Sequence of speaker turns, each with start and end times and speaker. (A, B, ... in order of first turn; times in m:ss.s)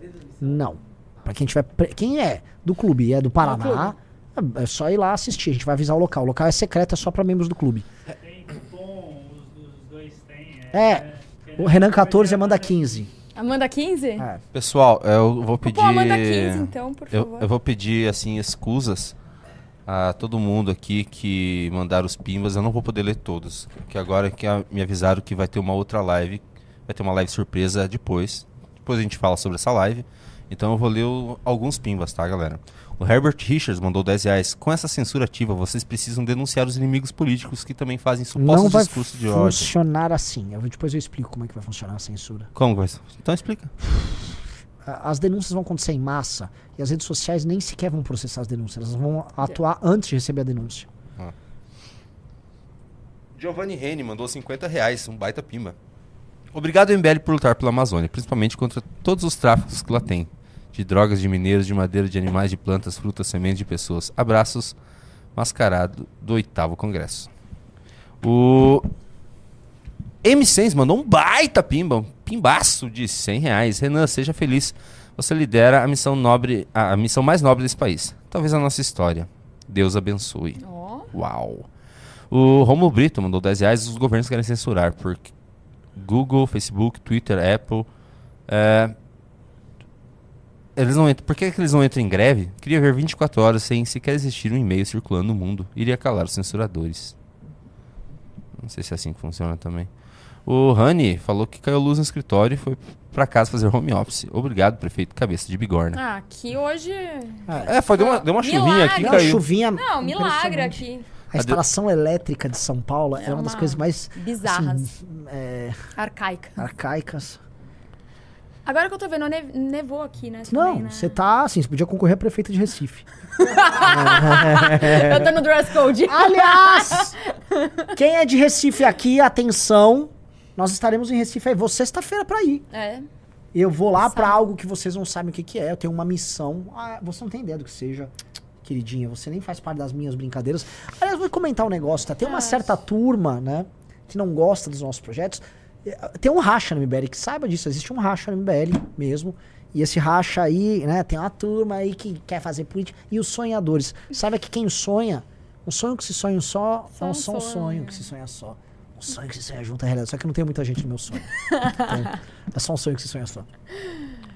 0:00.4-0:07.8 A
0:03.4-0:03.9 B
0:08.1-0:13.1 C
0:10.7-0:11.0 A
0:11.6-0:13.1 A
0:13.3-0:14.3 B
0:14.2-0:14.4 A
0:14.5-0:19.1 D
0:15.6-0:17.5 B
0:19.9-0:39.7 D
0:38.3-0:42.5 A
0:42.5-0:44.3 D
0:44.8-0:50.9 A
0:53.4-0:55.8 D
0:56.5-1:04.7 D
1:05.4-1:07.3 D
1:08.2-1:08.9 D
1:10.2-1:20.6 D
1:20.6-1:21.1 B
1:21.1-1:21.7 D
1:22.3-1:25.3 D
1:26.0-1:27.9 D
1:28.5-1:28.9 D
1:30.8-1:37.1 D
1:38.6-1:39.9 D
1:40.4-1:46.0 D
1:45.9-1:51.0 B
1:47.5-1:47.7 A
1:47.6-1:49.4 D
1:48.9-1:55.8 A
1:53.1-1:54.9 B
1:56.0-1:56.6 B
1:56.6-1:57.4 A
1:58.6-2:01.1 B
2:00.5-2:03.0 A
2:03.4-2:07.9 B
2:03.8-2:05.4 A
2:06.0-2:07.1 A
2:07.9-2:12.7 A
2:12.7-2:13.1 B
2:13.5-2:43.5 A
2:14.0-2:14.4 B
2:22.2-2:22.7 B
2:37.0-2:38.0 B
2:41.5-2:42.0 B